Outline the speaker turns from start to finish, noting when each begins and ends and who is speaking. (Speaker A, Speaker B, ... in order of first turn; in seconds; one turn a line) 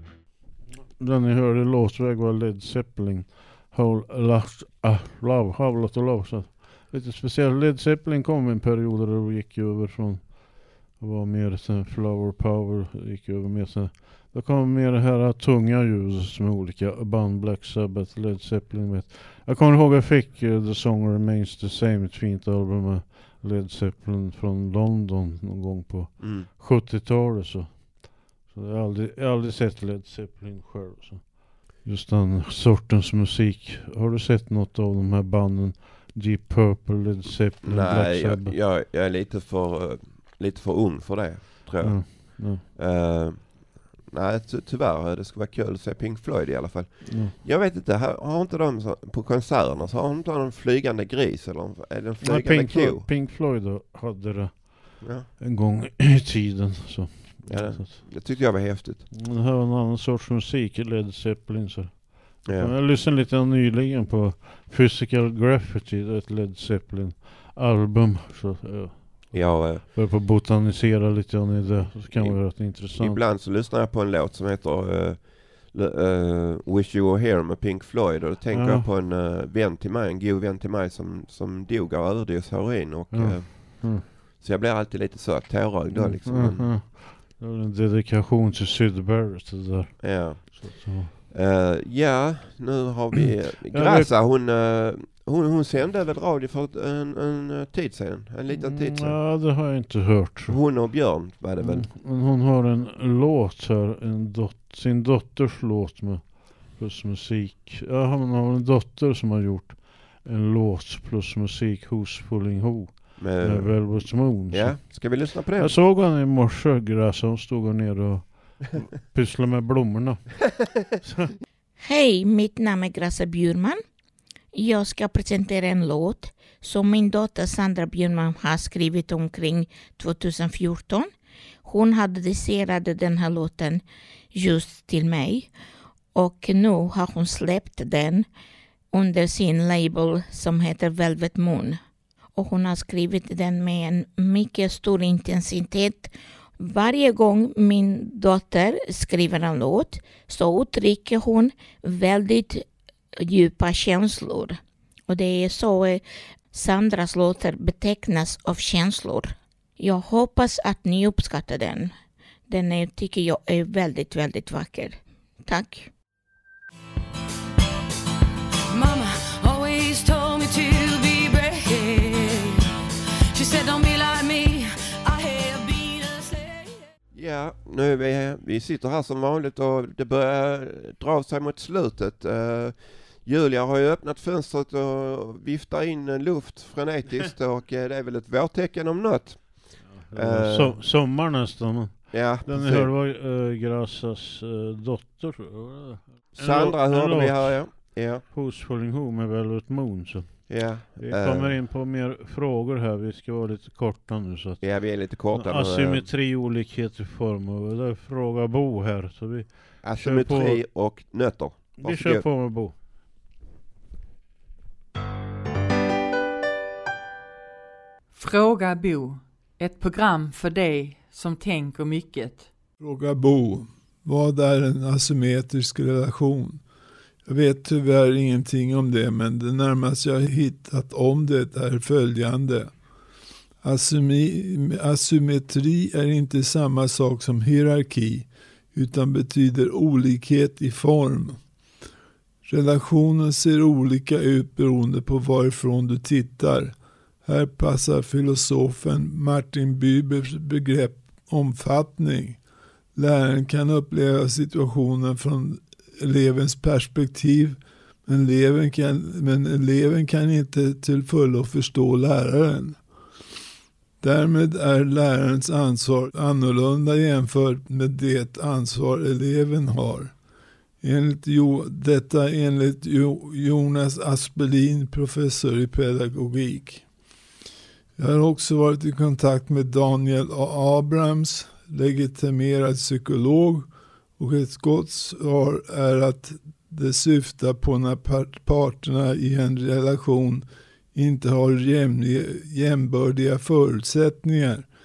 Speaker A: 0.9-38.5
Speaker B: 26.2-26.5
Speaker B: 37.6-53.1
Speaker A: 41.8-42.6
Speaker A: 47.0-47.4
Speaker A: 52.2-58.0
Speaker B: 55.0-55.3
Speaker B: 57.5-59.0
Speaker A: 59.1-73.2
Speaker B: 62.4-62.7
Speaker B: 69.3-69.8
Speaker B: 71.8-86.8
Speaker A: 78.5-78.9
Speaker A: 83.1-84.0
Speaker A: 85.9-91.1
Speaker B: 90.0-99.2
Speaker A: 93.2-94.1
Speaker A: 98.5-101.1
Speaker B: 100.5-101.9
Speaker A: 101.6-121.3
Speaker B: 113.2-115.8
Speaker C: 121.8-123.8
Speaker C: 124.5-131.1
Speaker C: 131.6-133.8
Speaker C: 134.3-135.5
Speaker C: 136.1-138.3
Speaker C: 138.9-141.8
Speaker C: 142.3-152.6
Speaker C: 153.2-161.9
Speaker C: 162.5-165.9
Speaker D: 168.7-172.6
Speaker D: 173.3-176.9
Speaker B: 177.1-190.8
Speaker A: 189.8-210.6
Speaker B: 192.1-192.9
Speaker B: 196.3-198.2
Speaker B: 200.5-201.6
Speaker B: 204.6-206.1
Speaker B: 209.8-212.3
Speaker A: 211.8-212.7
Speaker E: 218.1-222.5
Speaker F: 222.8-226.6
Speaker F: 227.2-232.7
Speaker F: 233.6-241.4
Speaker F: 242.4-252.4
Speaker F: 252.9-262.8
Speaker F: 264.0-270.2
Speaker F: 270.8-276.9
Speaker F: 278.0-294.7